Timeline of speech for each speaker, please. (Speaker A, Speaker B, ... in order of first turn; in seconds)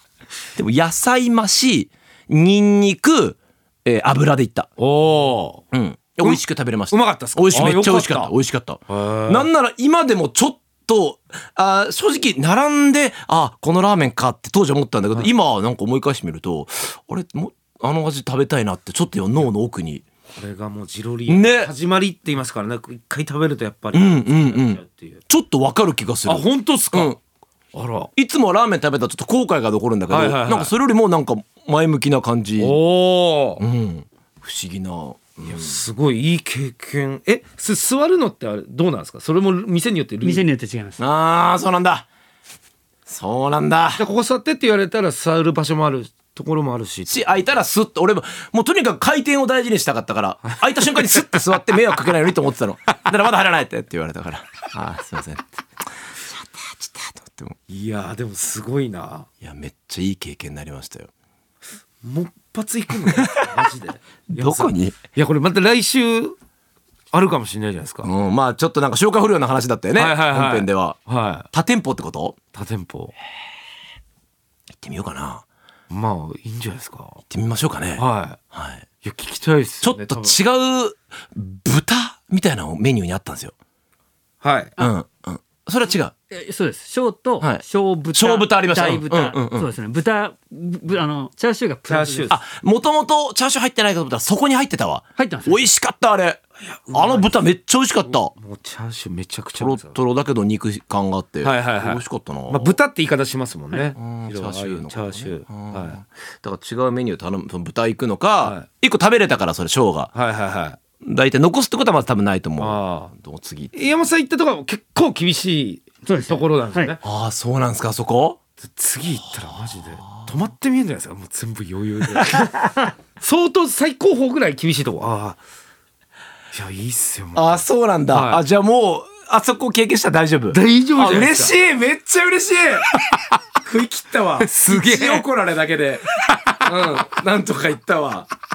Speaker A: 0.5-4.7, 5.7-20.0, 21.3-21.7, 23.9-27.2, 28.1-32.8, 33.6-35.7, 41.0-42.0, 43.1-44.0, 47.1-55.4, 56.2-57.5, 59.4-61.1, 63.1-63.4, 64.3-65.0, 68.0-71.0, 71.5-72.3, 74.8-75.4, 77.3-78.8, 79.8-83.5, 84.8-86.1, 87.4-89.7, 92.3-98.3, 99.6-102.7, 103.8-110.1, 111.0-113.8, 117.0-118.4, 119.5-120.3, 122.2-122.5, 127.3-132.8, 133.6-138.3
Speaker B: 4.8-5.6, 6.2-8.3, 8.9-9.5, 20.4-25.2, 26.2-27.1, 27.7-28.1, 30.1-30.7, 32.6-33.6, 35.5-40.5, 43.9-47.5, 57.7-59.3, 62.0-66.4, 67.1-68.1, 69.9-71.5, 72.5-73.1, 75.9-77.2, 78.0-78.4, 79.0-80.4, 84.4-84.8, 91.9-92.3, 96.6-97.4, 98.0-100.0, 101.4-106.0, 108.4-108.7, 110.1-110.8, 112.6-113.1, 113.7-117.0, 118.6-125.4, 126.5-128.4, 130.5-131.5, 134.4-135.2, 136.3-136.6
Speaker C: 40.2-41.0, 86.3-92.4, 95.2-95.7, 116.0-116.9